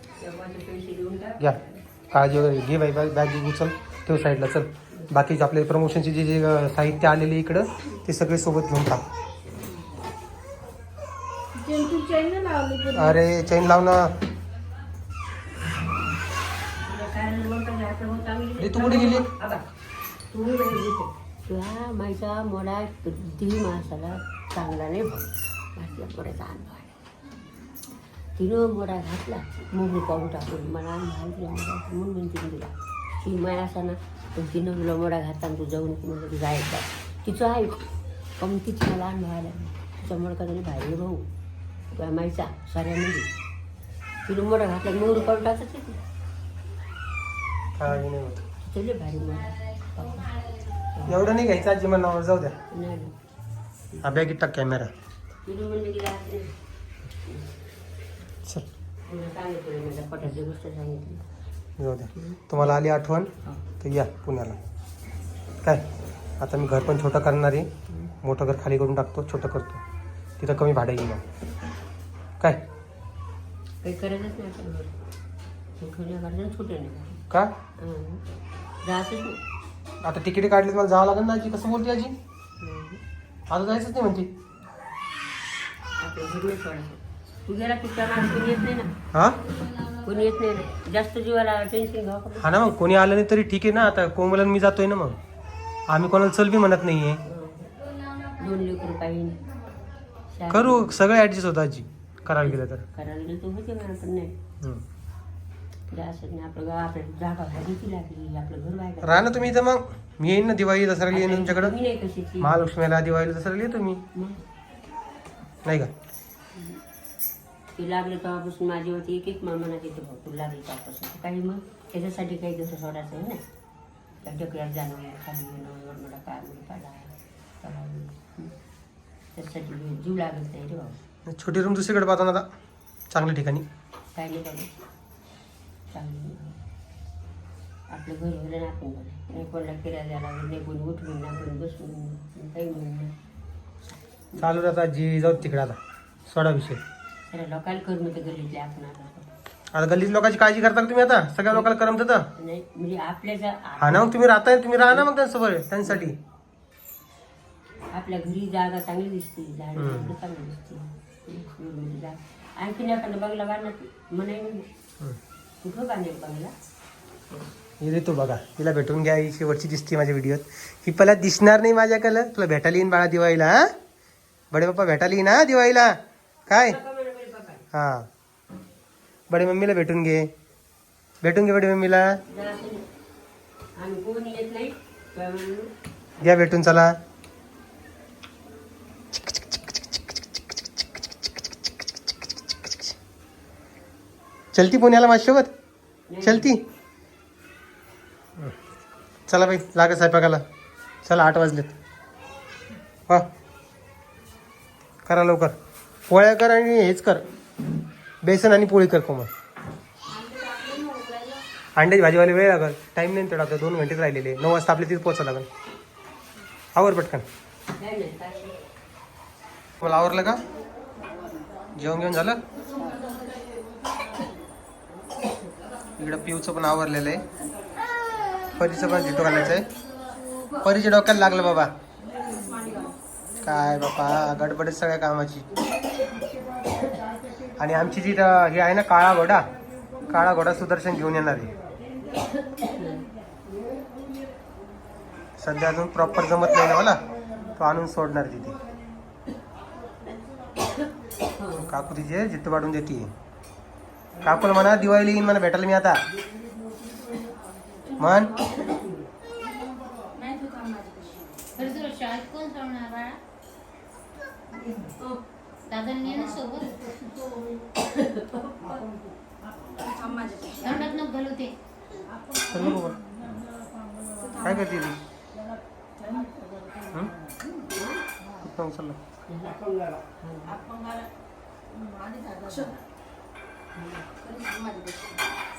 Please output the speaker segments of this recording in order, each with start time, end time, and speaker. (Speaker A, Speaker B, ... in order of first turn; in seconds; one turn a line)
Speaker A: 0.2-1.8
Speaker B: 2.1-9.0
Speaker C: 11.6-13.2
Speaker B: 12.9-14.2
Speaker A: 16.9-19.7
Speaker B: 18.6-19.3
Speaker A: 20.3-26.9
Speaker A: 28.4-37.9
Speaker A: 38.4-41.3
Speaker A: 41.9-43.3
Speaker A: 44.3-46.0
Speaker B: 47.8-48.5
Speaker A: 48.6-50.4
Speaker A: 50.9-51.2
Speaker B: 51.1-52.6
Speaker A: 52.7-53.2
Speaker A: 53.9-54.2
Speaker B: 54.0-54.9
Speaker A: 55.5-56.5
Speaker A: 59.1-61.2
Speaker B: 61.8-64.6
Speaker A: 62.1-62.4
Speaker B: 65.6-65.9
Speaker B: 66.4-67.7
Speaker B: 68.2-69.8
Speaker B: 70.4-71.3
Speaker A: 73.8-74.9
Speaker A: 75.8-77.2
Speaker A: 77.8-78.2
Speaker A: 78.8-79.4
Speaker B: 80.0-82.2
Speaker A: 82.6-83.0
Speaker B: 83.5-84.3
Speaker A: 86.0-88.9
Speaker B: 89.1-89.4
Speaker A: 90.0-92.6
Speaker B: 92.4-95.2
Speaker B: 95.9-97.2
Speaker A: 97.2-97.7
Speaker A: 98.4-99.4
Speaker A: 100.3-101.0
Speaker B: 100.5-102.8
Speaker A: 102.4-104.4
Speaker A: 105.9-109.5
Speaker B: 109.0-111.8
Speaker A: 111.1-112.5
Speaker B: 112.4-114.0
Speaker A: 114.1-114.4
Speaker B: 115.7-115.9
Speaker A: 116.5-116.8
Speaker A: 117.8-123.4
Speaker A: 124.2-128.6
Speaker A: 129.3-131.0
Speaker B: 131.3-132.5
Speaker B: 133.1-133.7
Speaker A: 134.2-134.7
Speaker A: 135.9-136.6
Speaker A: 137.9-143.2
Speaker B: 144.4-146.8
Speaker A: 147.3-149.3
Speaker B: 149.7-152.3
Speaker A: 152.3-154.2
Speaker B: 153.8-156.2
Speaker A: 155.9-156.2
Speaker A: 157.9-164.7
Speaker B: 159.8-160.2
Speaker A: 165.6-166.5
Speaker B: 167.8-173.7
Speaker B: 174.5-176.8
Speaker A: 176.5-177.7
Speaker B: 177.7-178.1
Speaker B: 179.3-180.3
Speaker B: 181.2-182.2
Speaker A: 182.3-182.9
Speaker A: 183.8-185.7
Speaker B: 186.2-187.0
Speaker B: 194.5-195.5
Speaker A: 196.1-196.5
Speaker B: 196.2-196.7
Speaker B: 199.3-200.4
Speaker B: 201.1-201.8
Speaker B: 205.1-205.6
Speaker B: 206.1-207.3
Speaker B: 208.2-209.3
Speaker C: 210.1-211.4
Speaker B: 211.8-215.5
Speaker B: 216.8-217.2
Speaker A: 217.8-218.5
Speaker B: 219.8-220.4
Speaker B: 221.8-222.4
Speaker B: 226.0-227.2
Speaker B: 228.5-229.7
Speaker B: 230.6-231.7
Speaker C: 232.2-233.0
Speaker B: 233.4-235.5
Speaker B: 237.6-239.5
Speaker B: 240.1-241.5
Speaker A: 242.4-243.0
Speaker B: 245.4-247.0
Speaker B: 247.6-248.6
Speaker A: 251.4-251.8
Speaker B: 251.6-253.1
Speaker B: 254.2-256.0
Speaker B: 258.0-258.3
Speaker C: 260.1-261.3
Speaker D: 261.6-263.2
Speaker D: 265.7-266.8
Speaker A: 267.8-268.7
Speaker C: 269.8-270.8
Speaker D: 270.6-271.5
Speaker B: 272.5-273.0
Speaker C: 274.2-274.6
Speaker B: 274.4-275.0
Speaker C: 276.0-276.3
Speaker A: 277.7-278.0
Speaker B: 278.4-279.0
Speaker A: 279.3-280.6
Speaker C: 282.3-282.8
Speaker A: 283.8-284.0
Speaker C: 284.2-285.2